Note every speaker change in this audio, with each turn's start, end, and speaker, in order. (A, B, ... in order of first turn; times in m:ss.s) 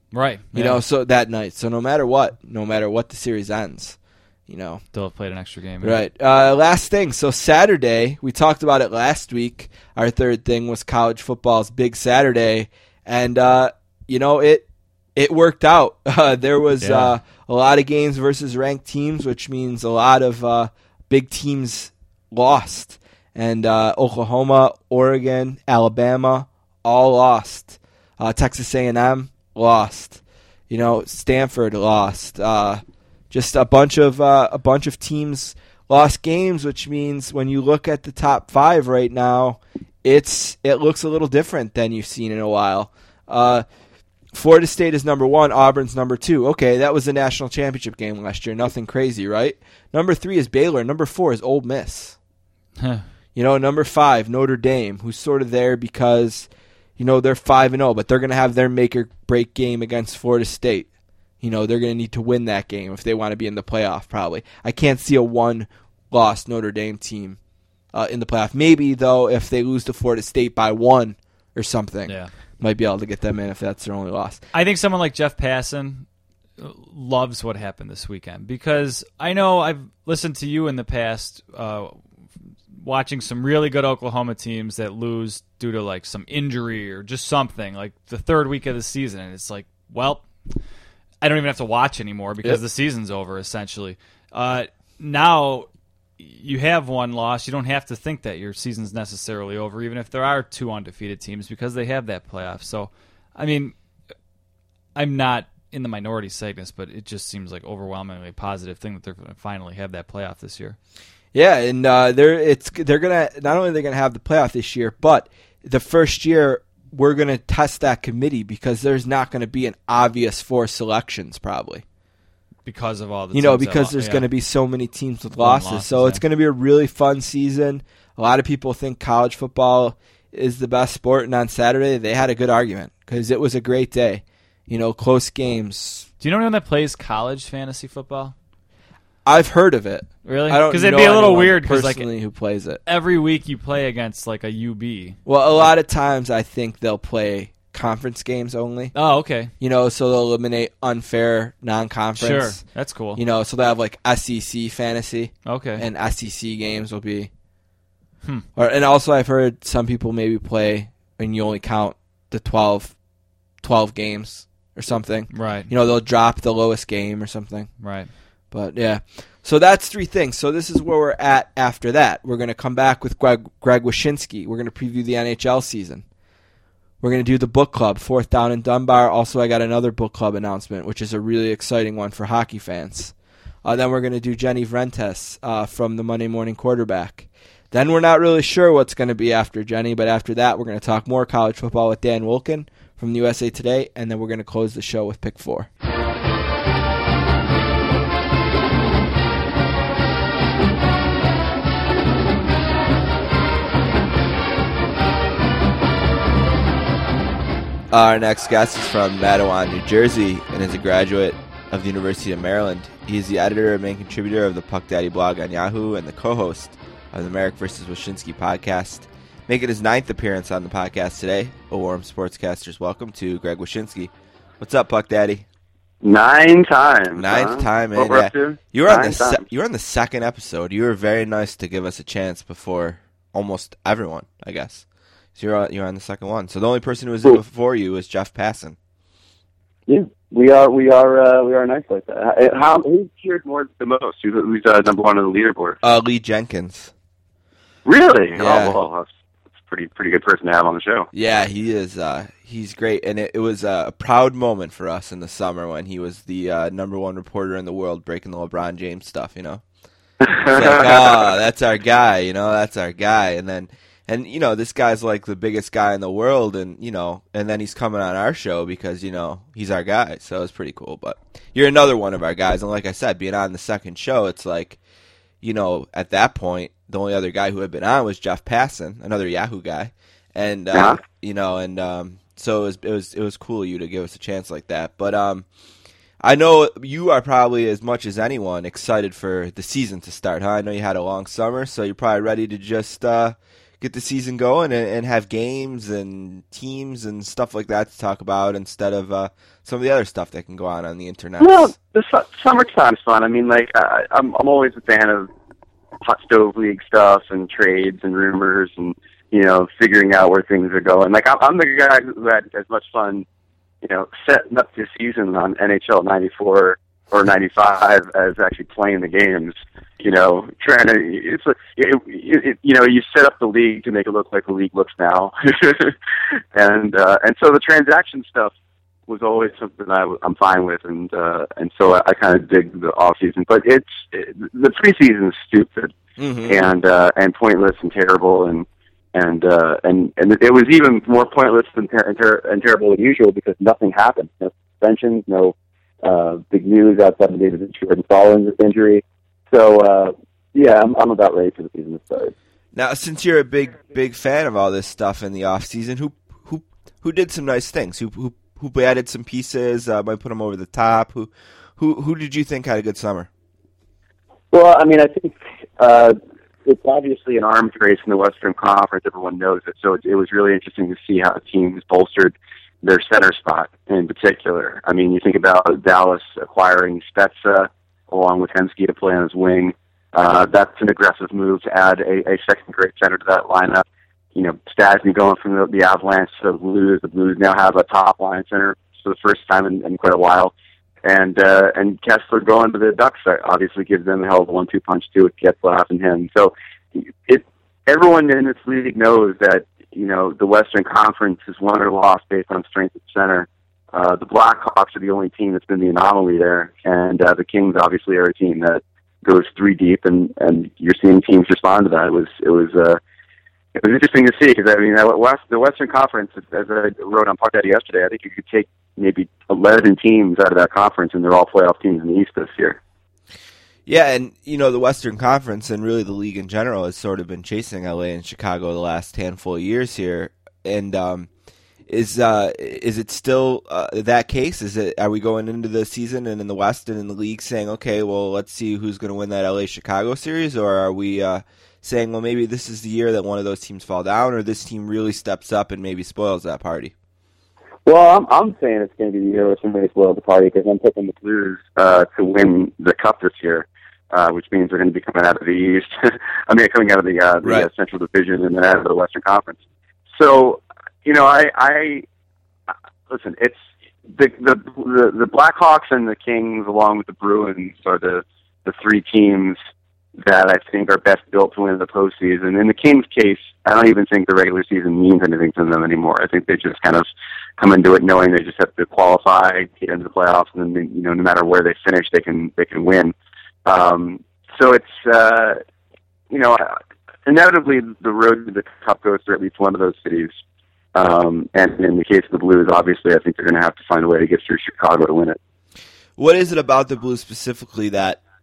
0:00.1-0:00.8 A
0:00.5-0:04.8 B
0:04.9-0:06.0 A
0:05.8-0:43.7 B
0:16.8-0:17.2 A
0:44.3-0:52.2 B
0:52.8-0:53.0 A
0:53.4-1:00.9 B
1:01.4-1:07.4 B
1:07.9-1:14.4 B
1:12.1-1:12.3 A
1:14.5-1:16.1 A
1:16.6-1:22.0 A
1:22.8-1:30.3 A
1:31.2-1:35.7 A
1:36.2-1:43.8 A
1:45.0-1:50.8 A
1:51.3-2:01.8 B
2:02.7-2:04.3 A
2:03.3-2:16.1 B
2:05.4-2:06.2 A
2:16.2-2:18.4 A
2:19.2-2:22.8 B
2:20.2-2:22.1 A
2:22.9-2:25.2 A
2:25.3-2:29.0 B
2:28.9-2:29.5 A
2:29.6-2:37.3 B
2:32.2-2:33.2 A
2:35.5-2:35.8 A
2:38.6-2:43.0 B
2:43.6-2:47.8 B
2:45.3-2:45.7 A
2:47.8-2:48.1 A
2:48.5-2:56.0 B
2:57.0-3:15.7 B
3:27.9-3:45.4 B
3:46.0-3:49.4 C
3:47.2-3:54.8 B
3:55.4-3:58.8 B
3:59.9-4:05.8 C
4:05.8-4:06.9 B
4:07.9-4:09.1 C
4:08.4-4:08.8 B
4:09.7-4:11.1 C
4:11.1-4:19.6 B
4:20.2-4:21.2 C
4:20.5-4:34.8 B
4:35.4-4:45.5 B
4:40.7-4:41.0 C
4:46.2-5:01.8 B
5:01.4-5:05.3 C
5:06.0-5:13.3 C
5:13.8-5:26.0 C
5:26.5-5:28.5 C
5:29.1-5:36.0 C
5:36.2-5:36.6 B
5:36.5-5:52.3 C
5:52.7-6:03.3 B
6:04.5-6:23.8 C
6:24.4-6:30.5 C
6:31.0-6:53.0 C
6:53.8-7:02.8 C
7:03.9-7:11.3 B
7:11.9-7:26.9 B
7:27.9-7:39.6 C
7:37.4-7:37.7 B
7:40.1-7:42.0 C
7:43.1-7:49.6 C
7:50.2-8:03.1 C
8:03.6-8:05.6 C
8:06.3-8:10.4 C
8:11.0-8:15.4 C
8:16.2-8:18.2 B